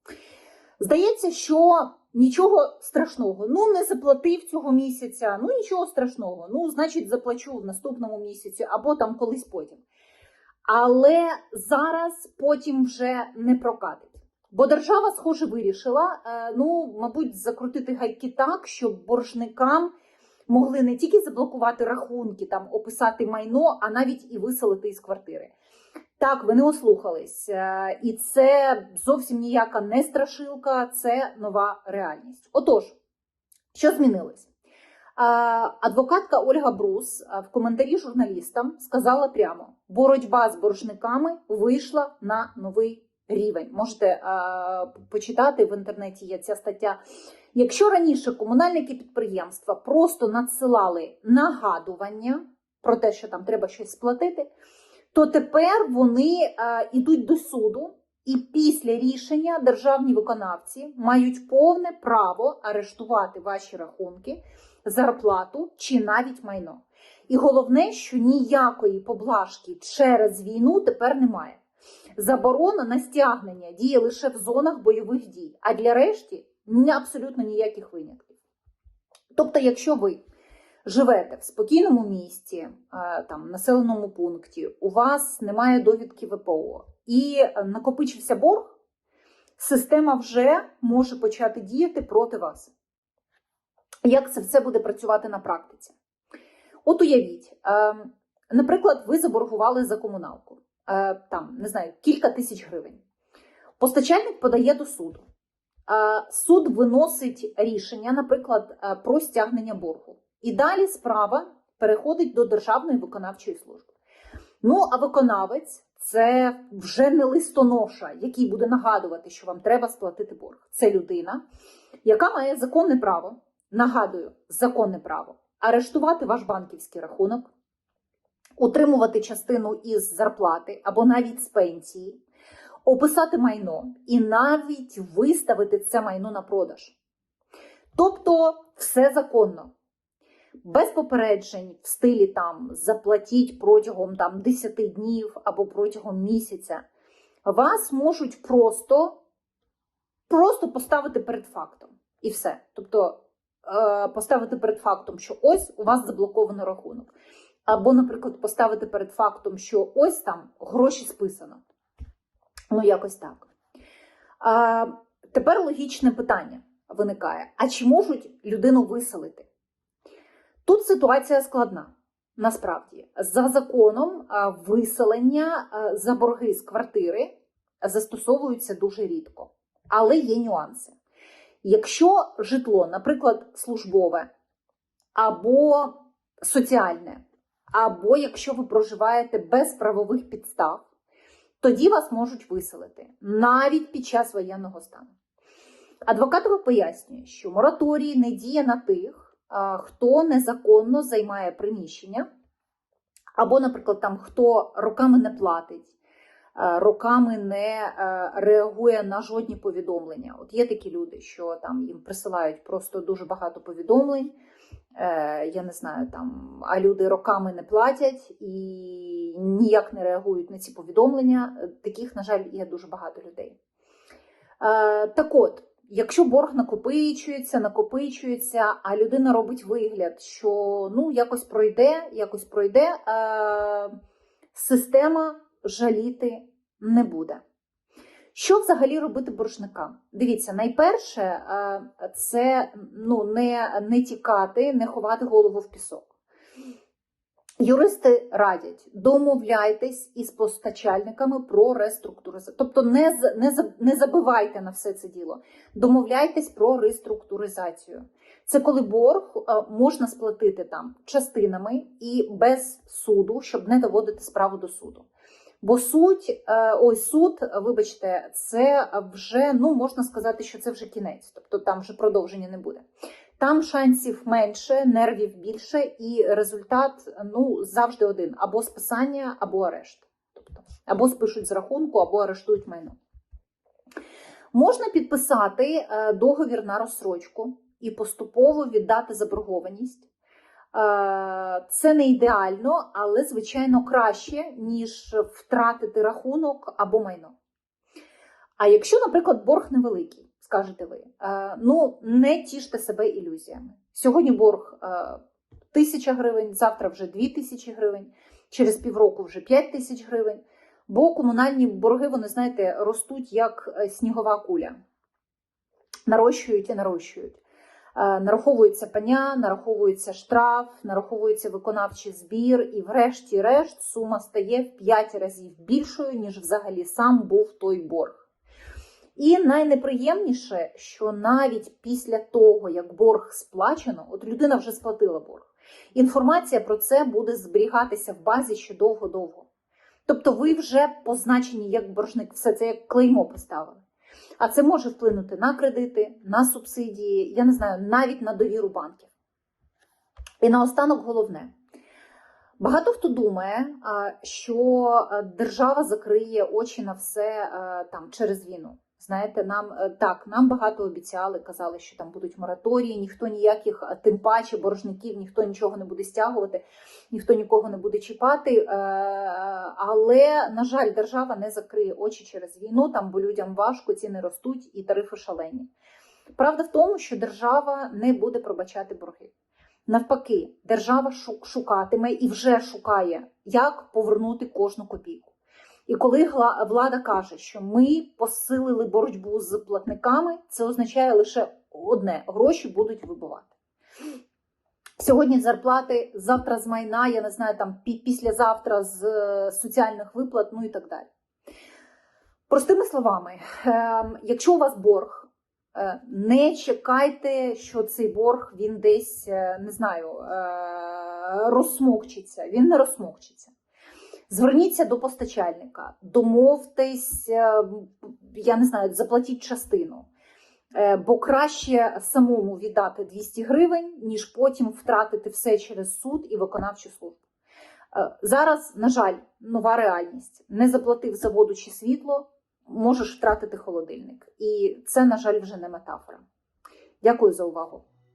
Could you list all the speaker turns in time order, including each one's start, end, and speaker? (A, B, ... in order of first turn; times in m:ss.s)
0:00.8-0:09.8 A
0:10.7-0:19.9 A
0:20.5-0:25.5 A
0:26.2-0:33.0 A
0:33.7-0:34.5 A
0:35.2-0:47.0 A
0:47.5-0:54.5 A
0:55.1-1:11.6 A
1:12.2-1:18.4 A
1:19.3-1:20.2 A
1:20.8-1:28.8 A
1:29.6-1:32.7 A
1:34.0-1:35.9 A
1:36.8-1:43.0 A
1:43.8-1:45.2 A
1:45.9-1:53.9 A
1:54.6-2:01.4 A
2:02.0-2:07.5 A
2:08.6-2:12.2 A
2:12.8-2:17.0 A
2:17.9-2:19.7 A
2:20.6-2:26.8 A
2:27.4-2:29.2 A
2:30.3-2:37.1 A
2:37.7-2:41.6 A
2:42.7-2:43.5 A
2:44.4-2:49.5 A
2:50.6-3:00.9 A
3:01.6-3:04.3 A
3:05.1-3:10.8 A
3:11.6-3:15.1 A
3:16.0-3:22.3 A
3:23.4-3:25.9 A
3:26.5-3:34.3 A
3:35.0-3:43.6 A
3:44.6-3:53.9 A
3:54.5-3:57.4 A
3:58.3-4:06.1 A
4:07.6-4:25.0 A
4:25.6-4:32.8 A
4:33.4-4:42.9 A
4:44.5-4:50.1 A
4:50.7-4:57.3 A
4:58.6-5:05.2 A
5:05.7-5:14.8 A
5:16.1-5:17.4 A
5:17.9-5:28.2 A
5:29.2-5:39.5 A
5:40.1-5:43.8 A
5:44.4-5:49.1 A
5:50.4-5:51.5 A
5:52.6-6:15.7 A
6:16.4-6:19.3 A
6:19.9-6:25.3 A
6:25.9-6:33.5 A
6:35.0-6:41.1 A
6:42.5-6:53.5 A
6:54.3-7:00.1 A
7:00.7-7:07.2 A
7:07.9-7:16.2 A
7:17.0-7:17.8 A